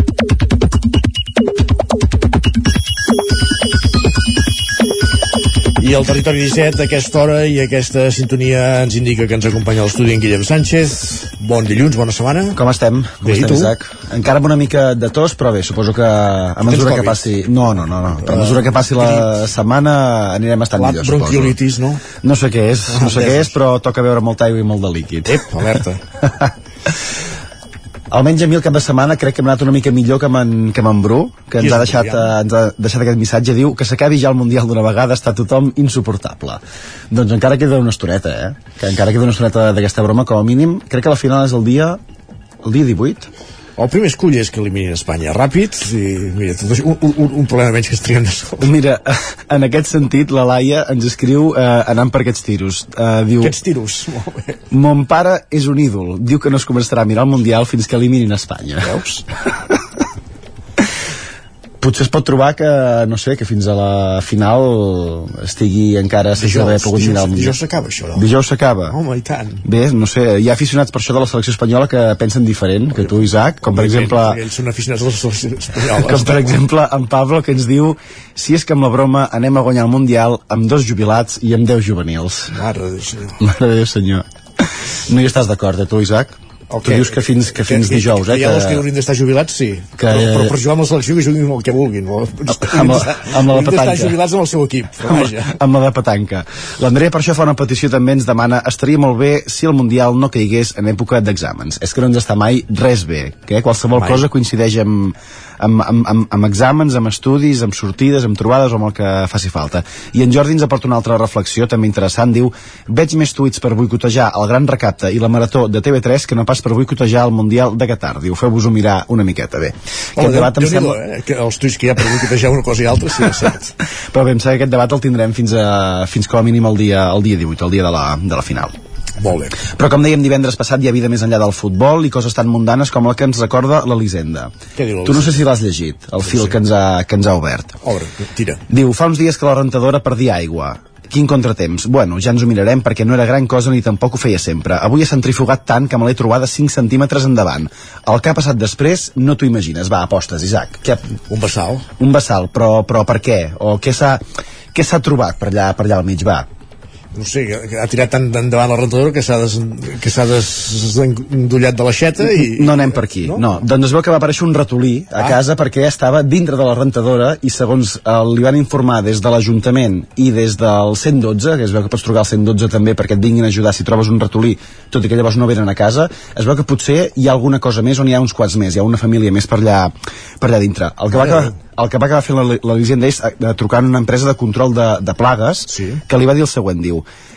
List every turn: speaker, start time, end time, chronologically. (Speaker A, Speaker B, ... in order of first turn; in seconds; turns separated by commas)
Speaker A: 5.8-12.6, Speaker B: 12.5-21.5, Speaker A: 13.2-13.7, Speaker A: 16.6-19.3, Speaker A: 20.7-22.0, Speaker B: 22.2-25.6, Speaker A: 22.9-23.6, Speaker A: 25.2-26.0, Speaker B: 28.1-36.6, Speaker A: 31.6-32.4, Speaker B: 37.1-42.0, Speaker B: 42.6-43.3, Speaker A: 43.8-48.7, Speaker B: 48.6-53.5, Speaker A: 53.4-54.6, Speaker B: 54.7-59.0, Speaker A: 58.8-59.2, Speaker B: 61.8-67.6, Speaker A: 66.3-68.3, Speaker B: 68.1-69.0, Speaker A: 68.9-69.6, Speaker B: 69.6-74.4, Speaker A: 72.9-76.6, Speaker B: 75.9-82.5, Speaker A: 82.5-83.4, Speaker B: 83.4-84.2, Speaker B: 85.1-88.8, Speaker A: 86.7-95.6, Speaker B: 90.0-90.5, Speaker B: 92.5-94.2, Speaker B: 95.1-121.0, Speaker A: 103.9-104.3, Speaker A: 120.2-123.7, Speaker B: 124.1-128.7, Speaker A: 129.2-129.6, Speaker B: 129.6-134.5, Speaker A: 134.8-135.5, Speaker B: 135.0-137.7, Speaker A: 136.2-136.6, Speaker A: 137.8-138.6, Speaker B: 138.7-151.0, Speaker A: 151.3-151.8, Speaker B: 152.0-154.2, Speaker B: 154.7-156.5, Speaker A: 157.1-163.4, Speaker B: 162.2-187.1, Speaker A: 181.1-181.5, Speaker A: 185.7-186.0